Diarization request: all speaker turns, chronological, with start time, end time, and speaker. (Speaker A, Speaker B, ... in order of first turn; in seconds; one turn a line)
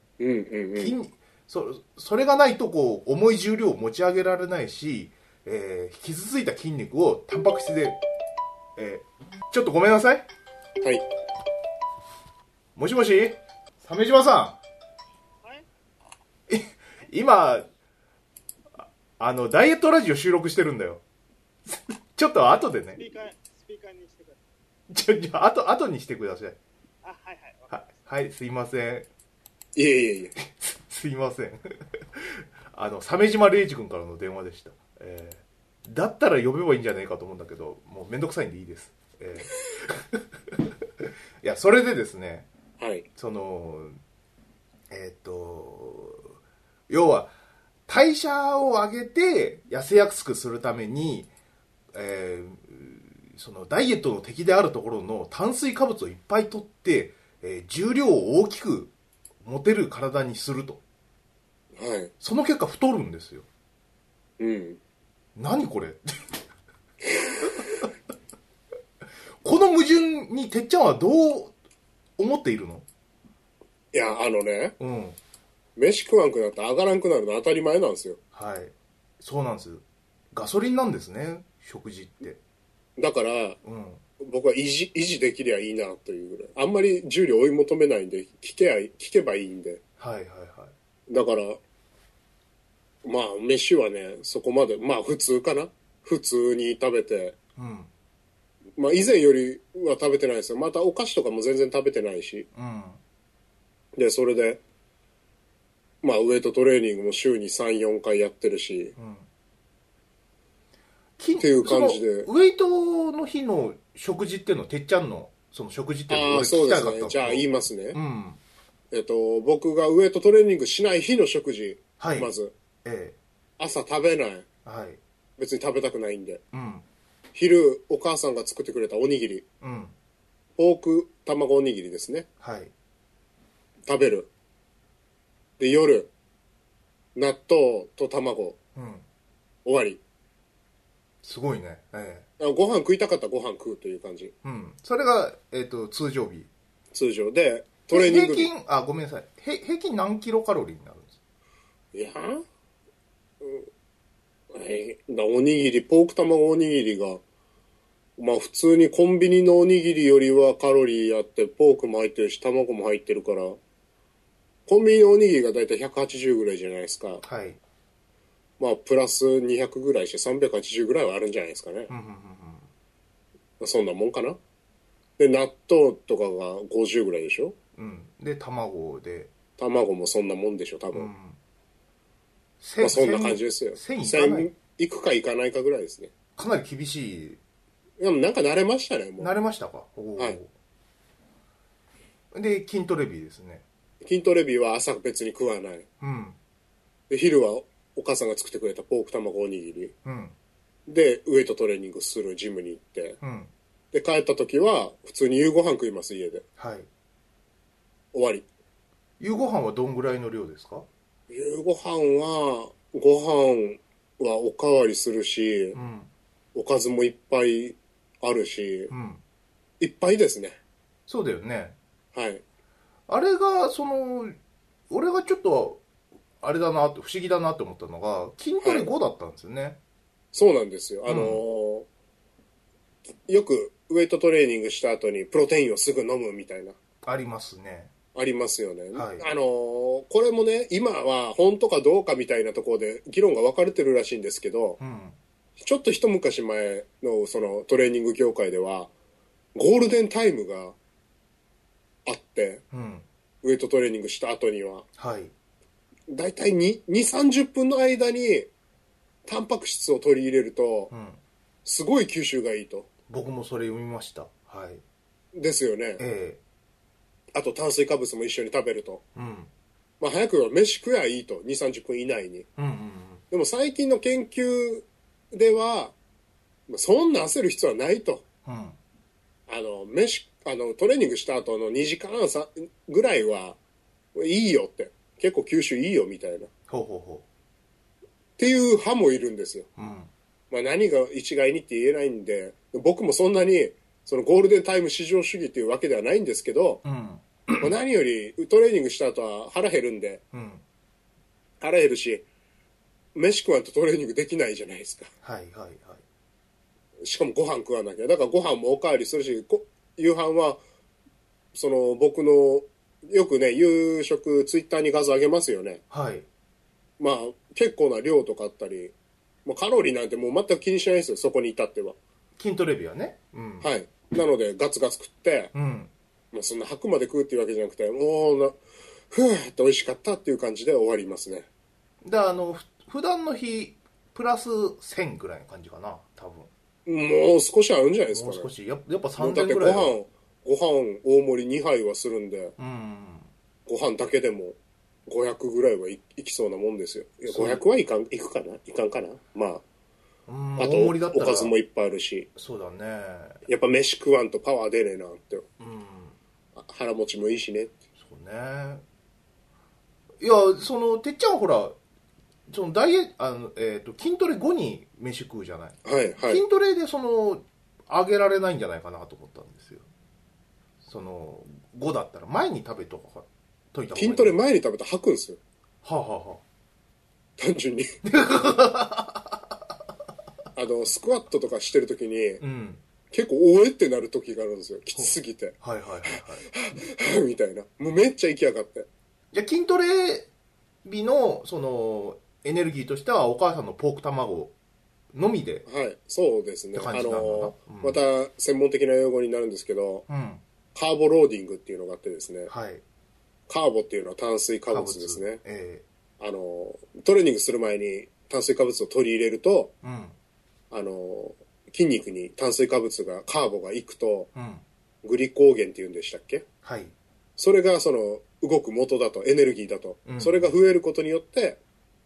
Speaker A: 0.2-1.0
Speaker B: 0.8-8.0
Speaker B: 8.8-10.3
Speaker B: 12.8-14.6
Speaker B: 16.5-17.7
Speaker B: 18.8-21.0
Speaker B: 21.7-23.1
Speaker C: 22.9-24.4
Speaker B: 24.9-26.6
Speaker C: 27.0-27.9
Speaker B: 27.7-29.1
Speaker A: 29.8-30.4
Speaker B: 30.4-42.5
Speaker A: 42.8-43.1
Speaker B: 43.2-44.0
Speaker B: 44.9-46.3
Speaker B: 46.9-47.3
Speaker B: 47.9-51.3
Speaker B: 51.9-58.9
Speaker B: 59.4-60.8
Speaker A: 61.8-62.1
Speaker B: 62.2-63.5
Speaker A: 64.4-64.8
Speaker B: 65.4-66.1
Speaker B: 67.4-67.8
Speaker B: 69.4-71.5
Speaker B: 72.2-72.8
Speaker A: 73.9-74.8
Speaker B: 74.8-75.2
Speaker A: 75.8-78.2
Speaker B: 78.3-82.4
Speaker A: 83.0-83.6
Speaker B: 83.6-84.0
Speaker A: 84.2-89.8
Speaker B: 90.0-90.7
Speaker A: 91.1-91.6
Speaker A: 93.0-97.4
Speaker B: 97.6-97.9
Speaker A: 98.8-102.5
Speaker B: 102.5-103.0
Speaker A: 104.0-104.6
Speaker A: 106.0-109.0
Speaker B: 109.0-109.3
Speaker B: 111.2-118.4
Speaker A: 111.4-112.3
Speaker A: 116.1-118.0
Speaker A: 118.9-122.5
Speaker B: 122.0-122.3
Speaker B: 122.8-123.2
Speaker A: 123.6-124.5
Speaker B: 124.7-125.0
Speaker A: 125.4-126.4
Speaker B: 126.5-126.8
Speaker A: 127.3-129.5
Speaker B: 129.6-129.9
Speaker A: 130.6-132.3
Speaker B: 132.4-132.7
Speaker A: 133.9-134.3
Speaker A: 135.6-136.1
Speaker A: 137.2-138.6
Speaker B: 138.8-139.0
Speaker A: 139.7-140.0
Speaker B: 141.2-142.3
Speaker A: 142.4-144.3
Speaker B: 144.4-146.5
Speaker A: 146.9-148.5
Speaker B: 147.9-151.2
Speaker A: 151.9-152.4
Speaker A: 153.4-153.7
Speaker A: 154.5-157.2
Speaker A: 158.2-163.6
Speaker A: 164.7-167.2
Speaker B: 167.2-167.6
Speaker A: 168.6-171.9
Speaker B: 171.9-172.7
Speaker A: 173.6-174.4
Speaker A: 175.2-177.6
Speaker B: 177.8-179.3
Speaker A: 179.6-181.1
Speaker B: 180.9-181.4
Speaker B: 182.6-184.5
Speaker A: 182.8-186.1
Speaker B: 186.4-187.4
Speaker A: 188.0-189.3
Speaker B: 189.2-190.5
Speaker B: 192.3-193.6
Speaker A: 194.0-195.9
Speaker B: 196.0-196.4
Speaker A: 197.1-199.9
Speaker B: 200.1-200.3
Speaker A: 200.9-203.2
Speaker B: 203.2-203.5
Speaker A: 203.9-206.4
Speaker B: 206.6-206.9
Speaker A: 208.1-208.5
Speaker B: 209.2-210.9
Speaker A: 211.3-215.8
Speaker B: 215.7-216.1
Speaker A: 216.6-218.9
Speaker B: 218.9-219.2
Speaker A: 219.8-220.6
Speaker B: 221.1-221.8
Speaker A: 222.1-222.4
Speaker B: 223.1-224.3
Speaker B: 224.9-225.8
Speaker B: 226.4-229.8
Speaker A: 228.6-228.9
Speaker A: 230.3-231.9
Speaker B: 231.1-231.4
Speaker A: 233.3-236.8
Speaker B: 237.0-237.9
Speaker A: 238.2-244.8
Speaker B: 238.9-239.2
Speaker B: 244.8-245.2
Speaker A: 245.6-248.9
Speaker A: 249.6-250.8
Speaker A: 252.1-252.6
Speaker B: 252.7-253.1
Speaker A: 253.4-254.9
Speaker B: 255.0-255.3
Speaker A: 256.1-258.5
Speaker A: 259.3-260.9
Speaker B: 260.9-261.2
Speaker A: 261.6-262.9
Speaker B: 263.1-264.8
Speaker A: 265.3-266.0
Speaker B: 266.0-266.4
Speaker A: 267.3-269.0
Speaker B: 269.2-269.5
Speaker A: 270.0-272.5
Speaker B: 272.6-273.2
Speaker A: 273.3-276.0
Speaker A: 276.7-278.2
Speaker B: 278.5-278.8
Speaker A: 279.5-283.6
Speaker A: 284.1-286.5
Speaker B: 286.7-287.2
Speaker A: 288.4-289.7
Speaker B: 289.8-290.1
Speaker A: 290.5-296.8
Speaker B: 296.8-297.7
Speaker A: 297.6-300.2
Speaker B: 300.3-300.6
Speaker A: 301.6-302.3
Speaker A: 303.1-305.1
Speaker B: 305.2-306.0
Speaker A: 307.0-310.6
Speaker A: 311.5-315.8
Speaker B: 315.9-316.3
Speaker A: 317.0-318.9
Speaker A: 319.4-322.0
Speaker B: 322.4-323.7
Speaker A: 323.6-325.5
Speaker B: 325.5-325.9
Speaker A: 326.3-328.6
Speaker A: 329.1-331.5
Speaker B: 332.0-336.5
Speaker A: 336.9-338.5
Speaker B: 338.1-339.9
Speaker A: 339.2-342.6
Speaker B: 342.6-343.3
Speaker A: 343.7-349.6
Speaker B: 347.3-347.6
Speaker B: 350.3-351.6
Speaker A: 350.6-352.3
Speaker B: 352.4-353.4
Speaker A: 353.5-355.4
Speaker B: 355.6-356.2
Speaker A: 356.6-357.7
Speaker B: 358.0-358.8
Speaker B: 360.2-361.8
Speaker B: 362.5-369.9
Speaker A: 365.8-366.4
Speaker B: 370.8-374.4
Speaker A: 373.9-375.4
Speaker B: 375.8-376.4
Speaker A: 377.4-377.9
Speaker B: 378.1-379.6
Speaker A: 380.6-382.4
Speaker B: 382.4-382.8
Speaker A: 383.1-385.6
Speaker B: 385.0-386.5
Speaker A: 386.1-388.9
Speaker B: 389.3-390.3
Speaker B: 390.9-394.5
Speaker B: 395.1-395.6
Speaker A: 395.7-400.1
Speaker B: 396.7-398.0
Speaker B: 400.1-400.4
Speaker A: 400.8-402.5
Speaker B: 402.5-402.8
Speaker A: 403.5-405.4
Speaker B: 404.7-405.8
Speaker A: 406.2-409.7
Speaker B: 409.8-410.1
Speaker A: 410.7-414.3
Speaker B: 414.4-414.6
Speaker A: 415.0-416.4
Speaker B: 416.6-416.9
Speaker A: 417.4-421.6
Speaker B: 420.1-420.5